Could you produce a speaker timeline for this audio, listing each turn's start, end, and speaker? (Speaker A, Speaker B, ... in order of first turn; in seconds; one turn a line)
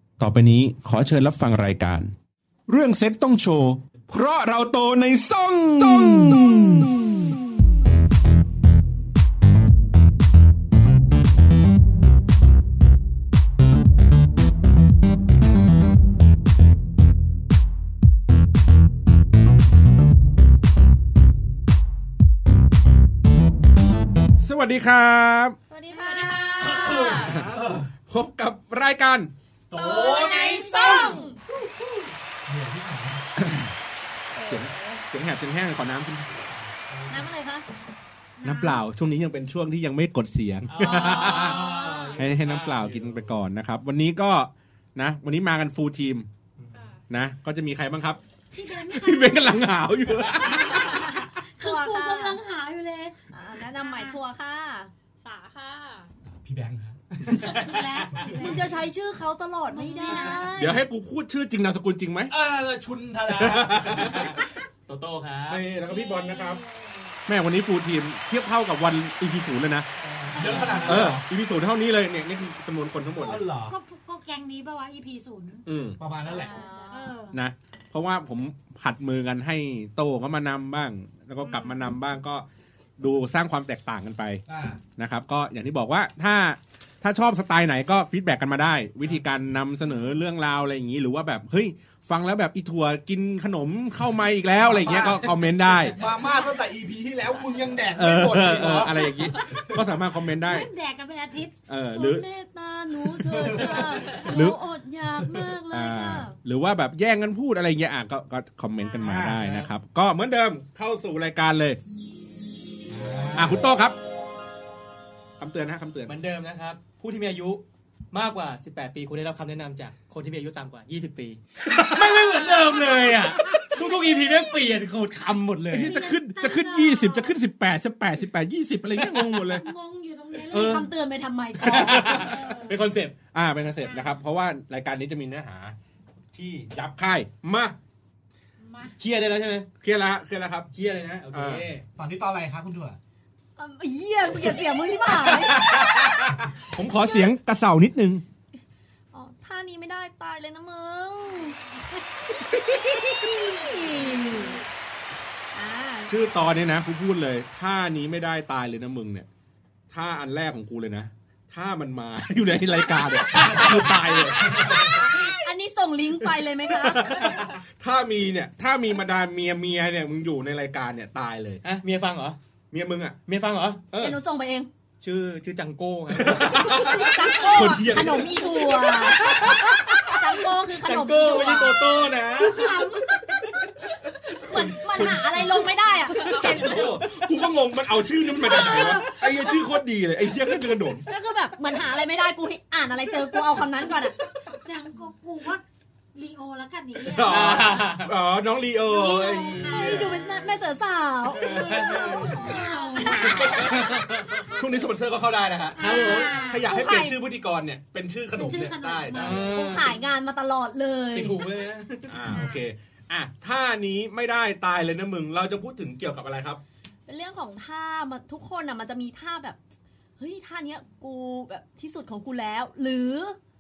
Speaker A: 0.2-2.1
Speaker A: 2.7-7.0
Speaker A: 24.4-25.6
Speaker B: 25.7-27.3
Speaker C: 25.9-27.2
Speaker D: 26.6-27.9
Speaker A: 27.2-29.3
Speaker D: 29.7-30.6
Speaker C: 29.7-31.4
Speaker B: 30.2-31.3
Speaker D: 32.5-33.2
Speaker A: 33.4-33.7
Speaker B: 34.3-35.0
Speaker A: 34.5-36.5
Speaker E: 36.9-37.3
Speaker B: 37.1-37.7
Speaker F: 38.4-38.8
Speaker A: 38.4-41.6
Speaker E: 40.7-43.4
Speaker B: 40.8-42.2
Speaker A: 42.1-46.3
Speaker E: 46.6-46.9
Speaker C: 46.7-47.0
Speaker A: 47.1-50.9
Speaker F: 48.5-49.7
Speaker F: 50.2-53.1
Speaker B: 50.5-52.4
Speaker B: 53.3-54.9
Speaker C: 53.8-54.2
Speaker C: 55.2-56.1
Speaker D: 56.4-57.4
Speaker F: 57.4-58.8
Speaker E: 57.4-57.8
Speaker D: 58.1-58.6
Speaker B: 58.2-60.8
Speaker F: 59.7-60.7
Speaker A: 60.5-62.3
Speaker D: 62.3-64.2
Speaker A: 63.3-64.4
Speaker E: 63.9-65.6
Speaker A: 65.5-66.6
Speaker F: 65.8-67.1
Speaker A: 67.3-69.9
Speaker D: 70.2-71.2
Speaker E: 70.3-70.9
Speaker F: 70.3-71.1
Speaker A: 70.8-73.5
Speaker D: 73.2-73.8
Speaker F: 73.7-75.7
Speaker A: 75.7-76.0
Speaker D: 76.0-76.6
Speaker F: 76.2-77.4
Speaker B: 76.3-77.2
Speaker A: 77.3-82.5
Speaker A: 83.0-84.4
Speaker D: 84.5-84.8
Speaker A: 85.0-96.0
Speaker D: 94.6-95.3
Speaker E: 94.8-96.0
Speaker D: 95.9-99.8
Speaker A: 98.0-100.7
Speaker F: 100.3-101.5
Speaker A: 101.7-102.3
Speaker B: 101.9-106.4
Speaker D: 103.3-104.0
Speaker A: 103.6-104.6
Speaker A: 105.7-111.8
Speaker D: 109.0-109.5
Speaker E: 109.3-109.7
Speaker D: 112.9-113.7
Speaker A: 113.3-114.0
Speaker A: 115.4-116.2
Speaker E: 116.1-126.0
Speaker A: 121.7-122.0
Speaker F: 123.4-123.8
Speaker A: 125.7-129.7
Speaker F: 125.8-127.4
Speaker F: 129.3-130.9
Speaker A: 130.5-130.9
Speaker B: 130.5-132.3
Speaker A: 131.6-132.5
Speaker E: 131.6-133.2
Speaker F: 132.1-132.8
Speaker A: 133.3-135.8
Speaker F: 133.8-134.2
Speaker A: 136.3-137.8
Speaker F: 138.6-139.0
Speaker E: 139.0-139.7
Speaker A: 139.8-140.7
Speaker E: 140.7-141.8
Speaker A: 141.3-141.7
Speaker D: 142.0-143.0
Speaker B: 143.6-145.9
Speaker A: 145.3-148.2
Speaker B: 149.1-151.6
Speaker B: 152.6-154.6
Speaker F: 153.6-154.6
Speaker B: 155.5-156.2
Speaker A: 156.1-159.3
Speaker A: 159.9-165.2
Speaker B: 162.9-167.4
Speaker D: 164.4-164.8
Speaker C: 164.7-165.2
Speaker A: 166.2-171.6
Speaker E: 171.6-172.4
Speaker A: 172.7-173.2
Speaker E: 173.3-173.9
Speaker A: 173.9-174.2
Speaker B: 174.0-174.7
Speaker E: 175.0-177.2
Speaker A: 176.1-178.9
Speaker B: 176.9-183.3
Speaker E: 178.9-182.7
Speaker F: 182.4-183.2
Speaker B: 184.3-187.0
Speaker A: 184.4-191.1
Speaker C: 186.1-186.9
Speaker B: 188.4-189.1
Speaker C: 188.9-189.2
Speaker B: 191.1-194.2
Speaker F: 194.5-195.6
Speaker F: 196.1-197.6
Speaker A: 197.0-200.1
Speaker E: 197.2-198.1
Speaker B: 198.8-203.6
Speaker F: 199.6-200.2
Speaker E: 199.6-200.2
Speaker E: 201.3-204.5
Speaker F: 201.4-203.7
Speaker A: 203.0-204.0
Speaker A: 204.5-209.5
Speaker F: 205.8-206.7
Speaker E: 205.8-206.5
Speaker B: 205.8-207.2
Speaker F: 208.3-210.0
Speaker E: 209.1-210.0
Speaker B: 209.5-211.4
Speaker E: 211.1-212.4
Speaker A: 212.1-216.6
Speaker F: 212.3-212.6
Speaker B: 217.1-219.6
Speaker B: 220.2-223.4